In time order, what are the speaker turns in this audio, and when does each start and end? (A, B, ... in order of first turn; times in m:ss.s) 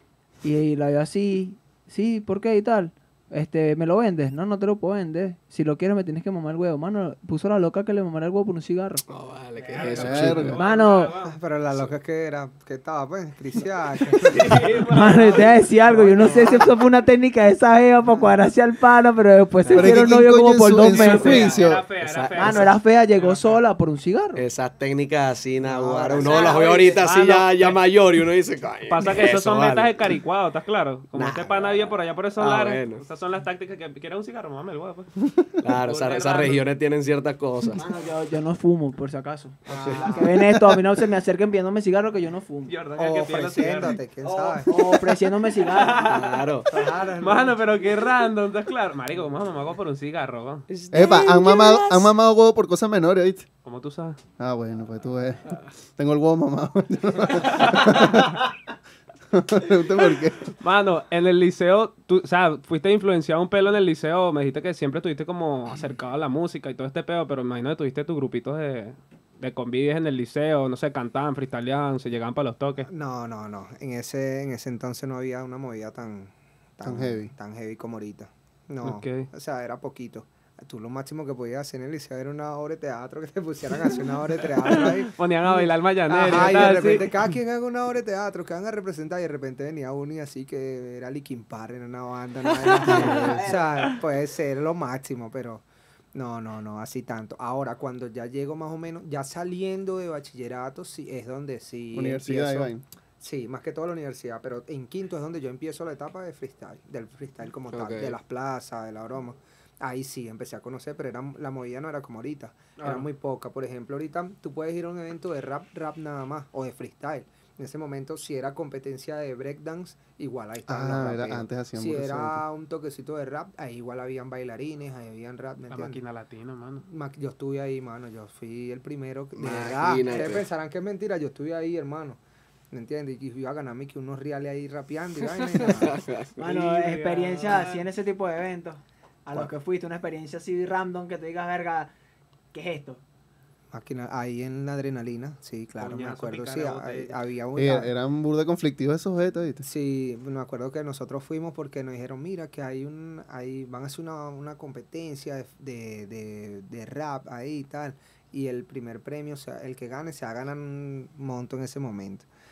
0:00.4-0:09.0 A
0:09.1-0:10.6 B
0:09.6-0:11.4 C
0:09.7-0:10.0 A
0:10.0-0:10.6 D
0:10.5-0:11.1 A
0:11.2-0:14.6 E
0:14.2-0:16.6 C
0:14.9-0:21.6 A
0:15.9-0:16.6 E
0:19.6-0:20.0 C
0:19.7-0:21.8 D
0:20.9-0:23.6 C
0:22.0-0:22.7 B
0:22.4-0:24.4 A
0:24.3-0:30.1 B
0:25.6-0:27.0 E
0:26.2-0:26.9 A
0:26.2-0:27.8 C
0:28.9-0:35.2 C
0:31.2-0:33.0 B
0:35.6-0:37.8 B
0:35.7-0:36.6 C
0:37.8-0:42.7 A
0:39.6-0:40.2 E
0:39.7-0:40.2 B
0:42.7-0:44.0 C
0:42.9-0:44.7 E
0:44.2-0:46.2 A
0:45.6-0:46.4 C
0:46.0-0:46.7 B
0:46.7-0:47.6 E
0:47.2-0:50.6 C
0:50.7-0:51.5 B
0:50.9-0:53.4 D
0:51.2-0:52.0 A
0:53.6-0:54.2 C
0:54.4-0:58.4 D
0:57.3-0:58.2 C
0:59.3-1:00.4 D
1:00.6-1:12.9 C
1:12.9-1:35.6 E
1:16.8-1:17.3 D
1:18.8-1:19.3 C
1:25.1-1:27.2 C
1:32.6-1:33.9 A
1:32.9-1:33.4 D
1:36.1-2:06.0 E
1:41.9-1:42.8 D
1:47.7-1:48.2 B
2:00.7-2:02.4 D
2:05.7-2:06.8 C
2:06.8-2:12.2 E
2:09.4-2:10.4 B
2:12.7-2:16.0 E
2:15.5-2:16.5 B
2:16.4-2:21.9 A
2:16.4-2:17.8 C
2:22.5-2:23.0 A
2:23.7-2:27.9 E
2:25.8-2:27.2 C
2:27.6-2:29.6 D
2:29.6-2:42.3 E